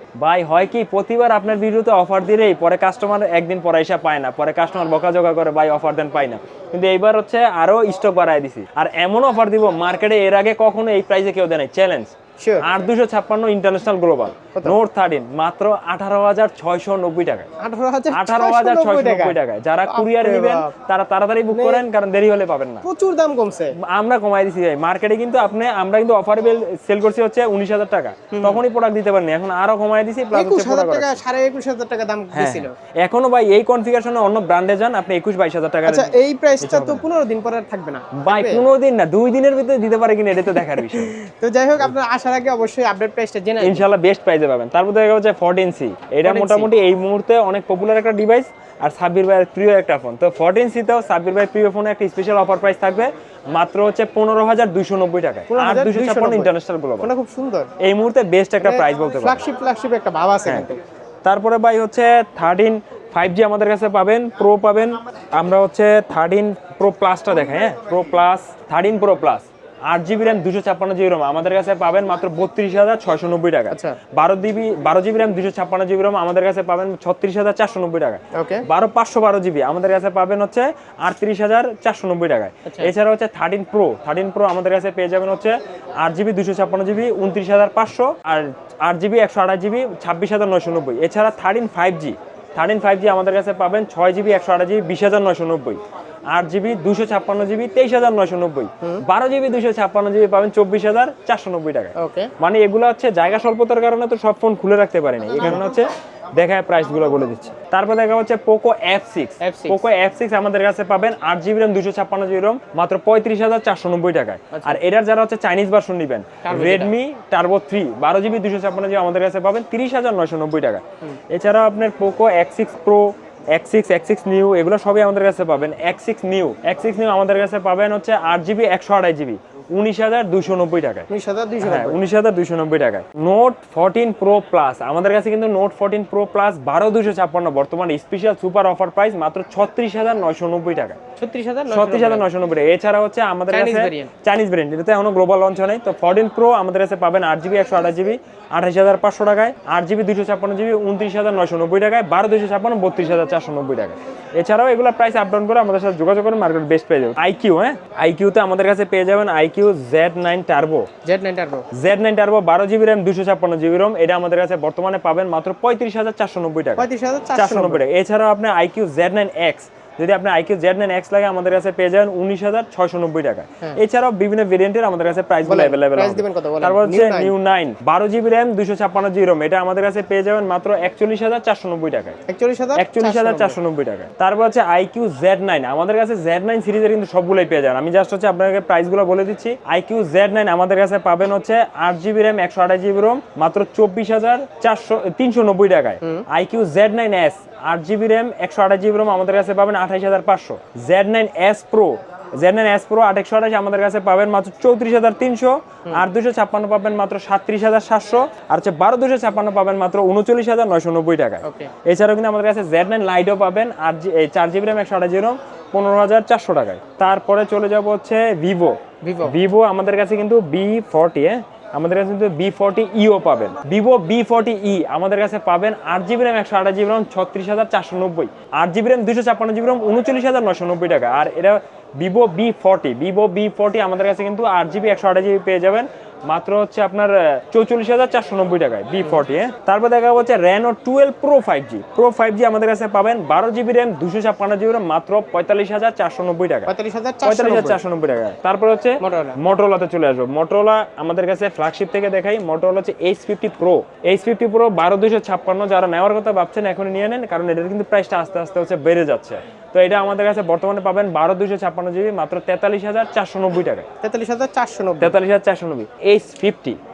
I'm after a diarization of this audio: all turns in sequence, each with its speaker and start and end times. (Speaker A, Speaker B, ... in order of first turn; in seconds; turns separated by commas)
Speaker A: 0.2-17.5, Speaker B: 12.4-12.7, Speaker B: 17.6-20.7, Speaker A: 18.1-22.8, Speaker B: 21.5-21.8, Speaker B: 22.8-23.8, Speaker A: 23.8-31.2, Speaker B: 28.3-28.6, Speaker B: 30.3-32.7, Speaker A: 32.3-37.0, Speaker B: 35.9-38.6, Speaker A: 38.1-41.1, Speaker B: 40.6-43.9, Speaker A: 43.6-57.1, Speaker B: 46.2-46.7, Speaker B: 55.5-57.7, Speaker A: 57.8-59.5, Speaker B: 58.6-60.8, Speaker A: 60.5-60.7, Speaker A: 61.2-131.1, Speaker B: 73.7-74.0, Speaker B: 78.3-78.6, Speaker B: 82.7-82.9, Speaker B: 102.0-102.3, Speaker B: 105.4-105.6, Speaker B: 109.4-109.8, Speaker B: 114.5-114.8, Speaker B: 116.4-116.9, Speaker B: 131.1-132.0, Speaker A: 131.6-141.0, Speaker B: 141.2-142.3, Speaker A: 141.7-160.9, Speaker B: 143.5-144.1, Speaker B: 161.1-161.7, Speaker A: 161.7-182.2, Speaker B: 166.8-167.8, Speaker B: 175.4-177.3, Speaker B: 182.3-183.6, Speaker A: 182.8-246.7, Speaker B: 211.4-211.7, Speaker B: 219.0-219.3, Speaker B: 246.7-247.8, Speaker A: 247.2-263.9, Speaker B: 249.0-249.4, Speaker B: 264.0-265.2, Speaker A: 265.0-266.8